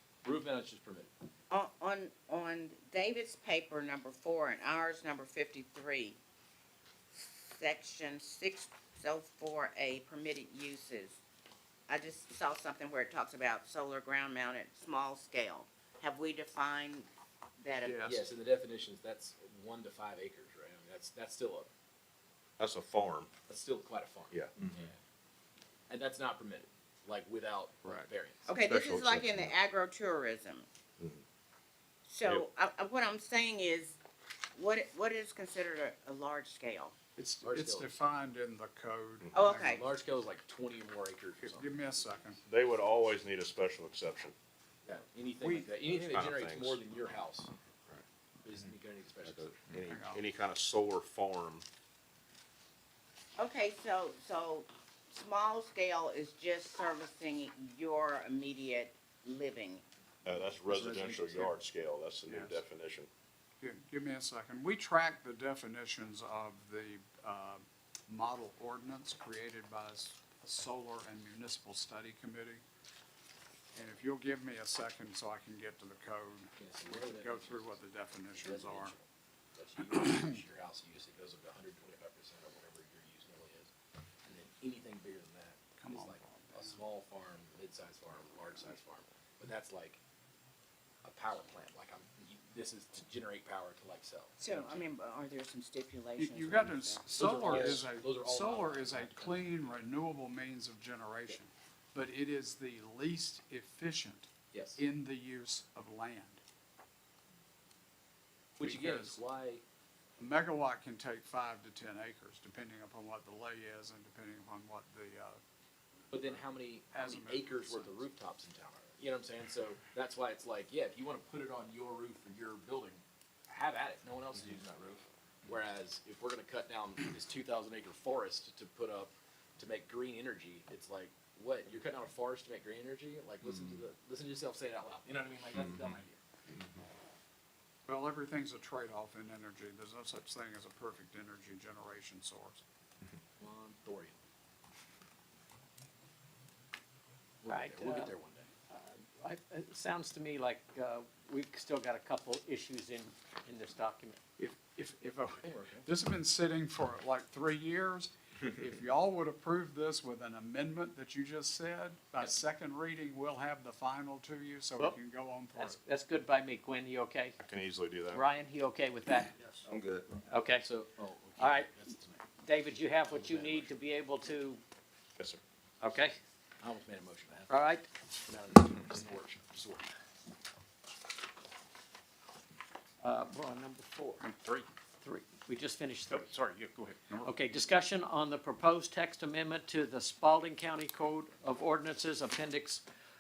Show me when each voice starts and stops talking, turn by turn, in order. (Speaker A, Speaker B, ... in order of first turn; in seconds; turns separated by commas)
Speaker A: 0.2-1.1, Speaker B: 1.5-6.2, Speaker B: 7.1-11.2, Speaker B: 11.9-17.1, Speaker B: 17.6-18.2, Speaker C: 17.8-18.2, Speaker A: 18.0-21.7, Speaker D: 22.6-23.3, Speaker A: 23.5-24.9, Speaker D: 24.3-24.8, Speaker A: 25.9-28.5, Speaker B: 28.5-30.7, Speaker D: 28.6-29.5, Speaker B: 32.1-34.0, Speaker B: 34.5-36.9, Speaker C: 37.1-39.8, Speaker A: 37.4-37.9, Speaker B: 39.3-39.8, Speaker A: 39.7-42.1, Speaker C: 41.4-42.4, Speaker D: 42.5-44.3, Speaker A: 44.9-47.5, Speaker C: 45.4-45.7, Speaker D: 45.9-46.8, Speaker A: 48.4-49.5, Speaker D: 49.2-51.6, Speaker C: 49.8-50.3, Speaker B: 53.4-59.8, Speaker D: 60.2-63.1, Speaker A: 60.7-61.5, Speaker C: 62.3-62.5, Speaker C: 63.6-72.6, Speaker C: 73.7-79.0, Speaker A: 76.6-77.7, Speaker A: 78.4-79.0, Speaker A: 79.5-83.7, Speaker C: 79.8-80.4, Speaker A: 84.2-90.0, Speaker C: 85.8-86.8, Speaker A: 91.0-94.6, Speaker B: 94.4-97.0, Speaker C: 96.2-106.4, Speaker A: 97.2-99.4, Speaker E: 97.2-97.6, Speaker A: 104.5-104.8, Speaker A: 108.6-109.6, Speaker C: 108.6-109.2, Speaker C: 110.2-115.4, Speaker A: 116.1-136.2, Speaker C: 116.9-118.1, Speaker D: 135.6-135.9, Speaker C: 137.9-142.6, Speaker A: 143.4-144.2, Speaker A: 147.4-148.5, Speaker E: 147.5-148.1, Speaker E: 148.7-154.2, Speaker C: 154.4-165.8, Speaker A: 155.4-155.8, Speaker E: 165.6-167.4, Speaker D: 167.4-168.2, Speaker E: 168.1-169.6, Speaker D: 169.7-170.0, Speaker E: 170.3-170.7, Speaker A: 170.6-172.2, Speaker E: 171.4-171.8, Speaker E: 172.4-174.6, Speaker A: 173.1-173.7, Speaker E: 175.8-176.2, Speaker A: 176.6-177.6, Speaker E: 177.5-177.9, Speaker A: 178.2-179.9, Speaker E: 183.0-184.2, Speaker A: 184.4-184.7, Speaker E: 185.0-186.3, Speaker A: 186.1-187.2, Speaker E: 187.2-192.8